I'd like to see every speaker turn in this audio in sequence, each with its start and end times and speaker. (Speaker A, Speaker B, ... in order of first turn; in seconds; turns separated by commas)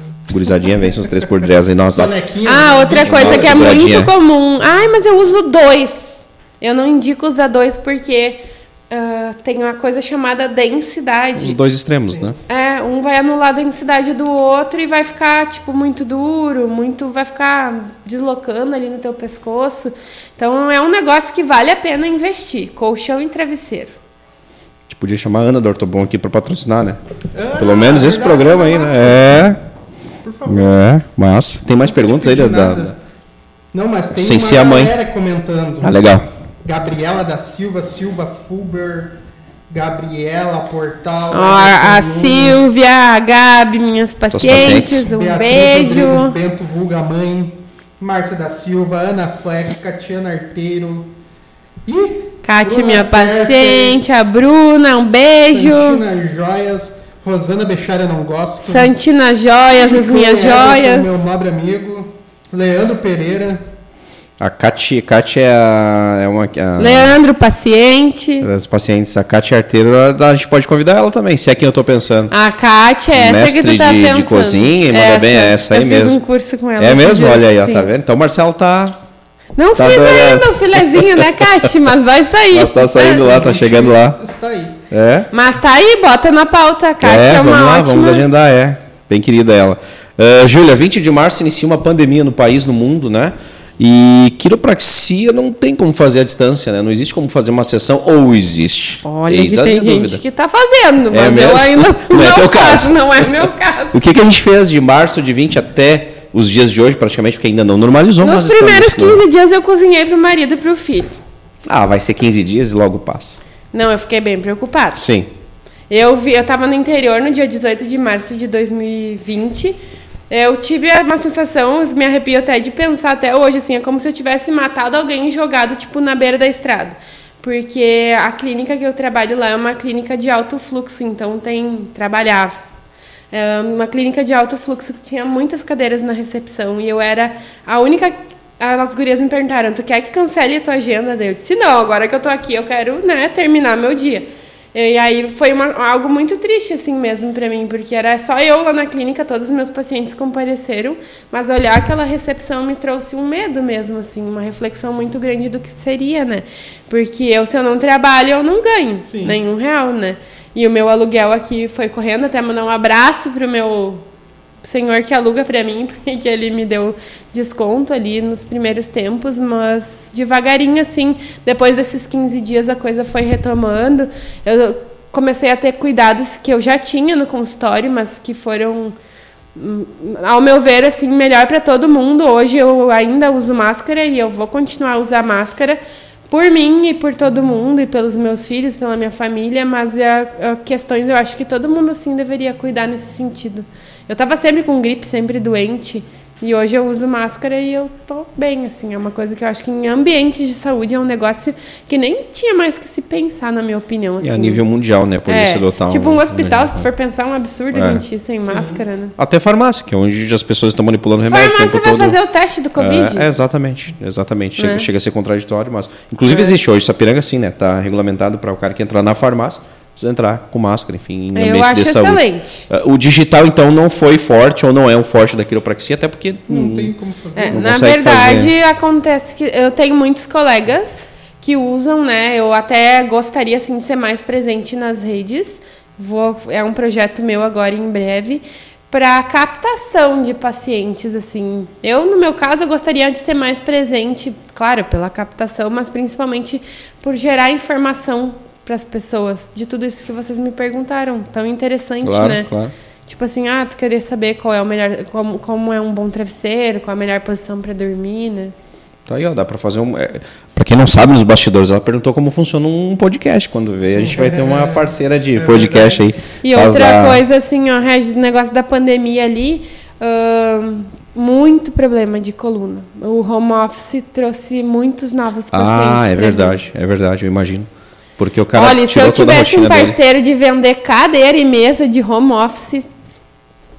Speaker A: 0.3-2.1, Speaker B: 1.9-3.9, Speaker C: 2.5-8.4, Speaker A: 3.0-4.1, Speaker C: 8.9-11.6, Speaker A: 11.4-12.4, Speaker C: 12.5-23.9, Speaker A: 24.9-27.0, Speaker B: 27.3-29.5, Speaker A: 27.6-29.6, Speaker B: 30.2-30.9, Speaker A: 30.4-32.9, Speaker B: 31.8-33.0, Speaker B: 33.7-36.0, Speaker A: 34.1-34.9, Speaker A: 35.8-36.3, Speaker B: 36.6-39.2, Speaker B: 39.7-42.7, Speaker C: 41.3-46.3, Speaker A: 44.3-45.1, Speaker B: 44.4-51.1, Speaker B: 51.9-54.0, Speaker C: 52.4-56.0, Speaker B: 55.5-58.9, Speaker C: 58.6-61.2, Speaker B: 59.5-63.6, Speaker A: 64.4-67.2, Speaker C: 66.8-68.5, Speaker A: 68.4-72.3, Speaker C: 72.3-77.9, Speaker A: 73.1-76.2, Speaker A: 76.8-79.0, Speaker C: 79.5-83.2, Speaker A: 79.8-81.4, Speaker A: 82.5-84.2, Speaker B: 83.1-84.8, Speaker A: 84.9-85.3, Speaker C: 85.3-88.2, Speaker A: 87.0-100.2, Speaker C: 99.0-104.0, Speaker A: 101.1-109.2, Speaker C: 108.2-111.2, Speaker A: 111.6-113.4, Speaker C: 113.7-115.0, Speaker A: 115.0-115.3, Speaker C: 115.9-119.8, Speaker C: 120.3-132.6, Speaker C: 133.3-164.0, Speaker B: 159.1-159.4, Speaker C: 164.6-178.9, Speaker C: 179.6-204.6, Speaker A: 204.2-206.9, Speaker C: 205.3-209.1, Speaker A: 207.7-208.0, Speaker B: 208.4-208.8, Speaker A: 209.2-212.2, Speaker C: 211.2-213.3, Speaker A: 212.8-226.9, Speaker C: 214.6-214.9, Speaker C: 221.3-222.7, Speaker B: 226.5-227.6, Speaker C: 227.4-252.5, Speaker A: 227.5-228.5, Speaker A: 252.0-252.7, Speaker C: 253.1-258.5, Speaker A: 259.1-267.2, Speaker B: 263.9-266.0, Speaker C: 266.4-276.6, Speaker A: 275.5-279.9, Speaker C: 278.5-282.9